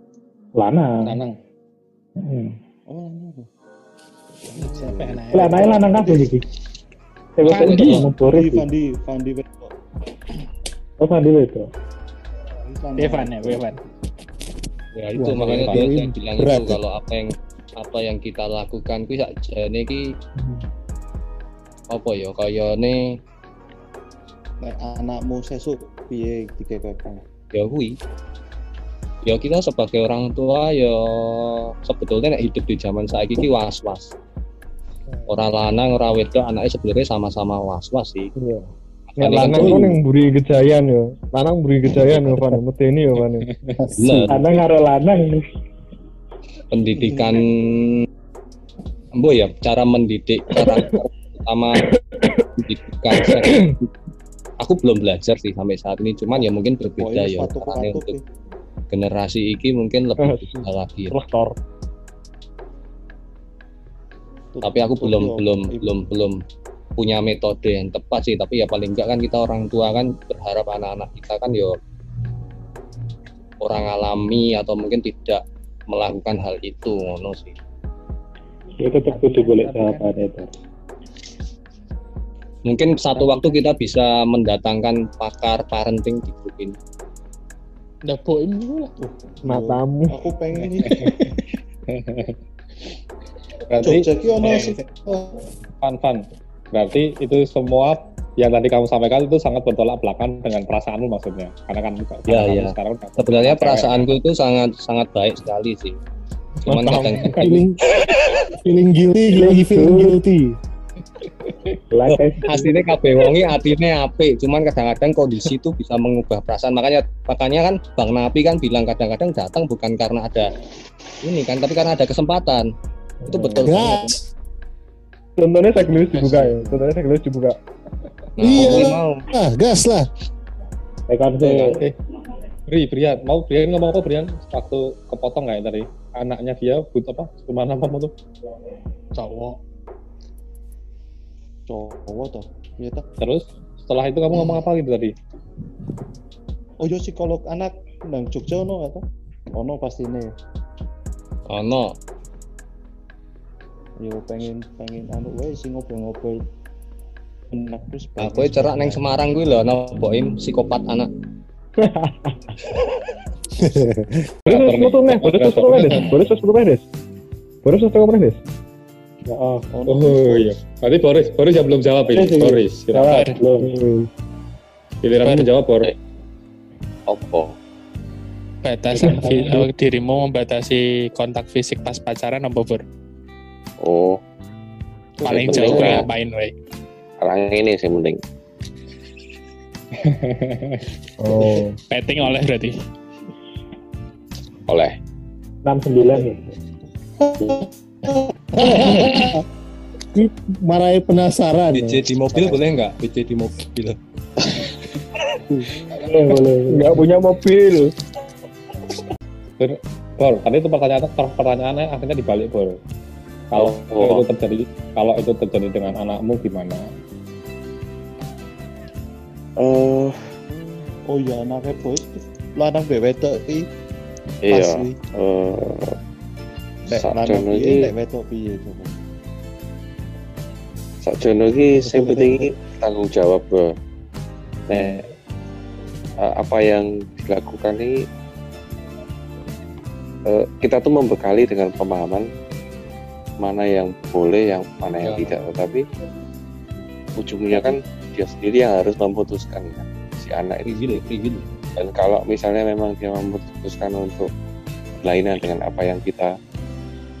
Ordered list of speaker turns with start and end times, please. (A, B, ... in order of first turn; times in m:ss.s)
0:00.6-0:01.2 A
0:01.0-0:01.3 B
0:02.2-0:02.6 A
0:02.9-0:03.5 C
0:04.4-0:06.3 C
0:04.5-0:05.7 D
0:05.3-0:06.4 A
0:07.4-0:08.7 A
0:07.4-0:08.1 D
0:08.0-0:09.7 C
0:11.0-0:11.7 A
0:12.6-0:13.6 C
0:13.0-0:13.8 D
0:14.9-0:20.1 E
0:15.1-0:16.8 F
0:15.5-0:15.8 B
0:21.9-0:23.1 E
0:24.6-0:27.2 C
0:27.5-0:28.0 E
0:29.2-0:34.1 E
0:35.3-0:38.3 E
0:38.4-0:43.5 G
0:39.1-0:39.7 E
0:39.2-0:40.0 B
0:39.4-0:39.8 F
0:43.8-0:44.3 F
0:44.0-0:44.6 E
0:44.3-0:45.4 A
0:46.7-0:48.0 E
0:47.0-0:47.4 C
0:49.1-0:51.8 E
0:50.6-0:50.9 G
0:51.8-0:53.8 G
0:52.6-0:53.8 E
0:54.6-0:58.2 E
0:56.3-0:58.2 C
0:58.9-1:01.2 E
1:00.2-1:01.5 G
1:04.5-1:05.8 C
1:04.6-1:06.4 E
1:07.0-1:11.8 E
1:13.6-1:17.5 E
1:18.8-1:20.5 A
1:22.6-1:26.8 E
1:28.0-1:28.9 D
1:29.0-1:31.1 C
1:29.4-1:30.2 G
1:31.9-1:32.4 B
1:33.7-1:34.6 B
1:33.8-1:35.4 C
1:34.4-1:34.8 D
1:35.8-1:44.0 B
1:42.3-1:46.0 E
1:46.6-1:47.5 E
1:46.6-1:47.5 G
1:47.4-1:47.8 F
1:48.0-1:48.4 E
1:48.6-1:50.4 F
1:49.3-1:50.5 A
1:51.9-1:52.7 A
1:52.4-2:00.5 E
2:01.2-2:02.7 E
2:03.3-2:04.2 E
2:03.3-2:03.8 A
2:03.6-2:04.2 F
2:05.4-2:07.6 G
2:08.4-2:09.2 E
2:08.4-2:10.0 F
2:11.1-2:11.9 A
2:11.4-2:11.9 B
2:12.7-2:18.1 B
2:19.1-2:19.6 D
2:21.7-2:23.0 C
2:23.2-2:25.1 B
2:26.8-2:30.3 C
2:31.5-2:32.0 E
2:34.0-2:36.4 C
2:37.5-2:39.0 C
2:38.2-2:41.1 E
2:43.7-2:44.0 F
2:44.5-2:46.2 B
2:44.5-2:46.8 G
2:47.6-2:48.4 G
2:49.3-2:49.7 A
2:49.7-2:50.6 C
2:49.9-2:53.2 B
2:52.1-2:53.8 A
2:53.1-2:53.4 D
2:53.6-2:54.1 G
2:55.0-2:55.9 B
2:55.2-2:55.5 D
2:57.1-2:57.5 H
2:58.6-3:02.8 D
2:59.0-2:59.6 A
2:59.1-2:59.6 G
3:03.8-3:04.2 H
3:05.2-3:06.0 H
3:05.2-3:05.7 B
3:05.2-3:06.5 D
3:07.2-3:08.2 H
3:11.2-3:11.8 G
3:11.9-3:12.8 D
3:14.7-3:14.9 H
3:15.6-3:16.4 A
3:17.2-3:19.4 C
3:18.6-3:19.4 F
3:20.1-3:22.0 F
3:21.7-3:24.0 E
3:22.3-3:22.6 C
3:26.0-3:27.1 A
3:26.7-3:27.9 G
3:29.6-3:32.8 B
3:33.5-3:36.8 B
3:33.5-3:34.2 H
3:39.6-3:40.3 H
3:41.1-3:43.7 C
3:44.4-3:45.9 H
3:44.5-3:44.9 C
3:46.9-3:49.0 C
3:46.9-3:47.9 H
3:51.0-3:53.7 H
3:51.7-3:52.5 C
3:54.7-3:55.1 H
3:56.2-3:57.9 H
4:00.2-4:02.2 H
4:03.4-4:05.8 H
4:05.0-4:05.4 B
4:07.2-4:11.1 H
4:10.6-4:11.5 E
4:11.8-4:14.3 H
4:15.0-4:16.3 H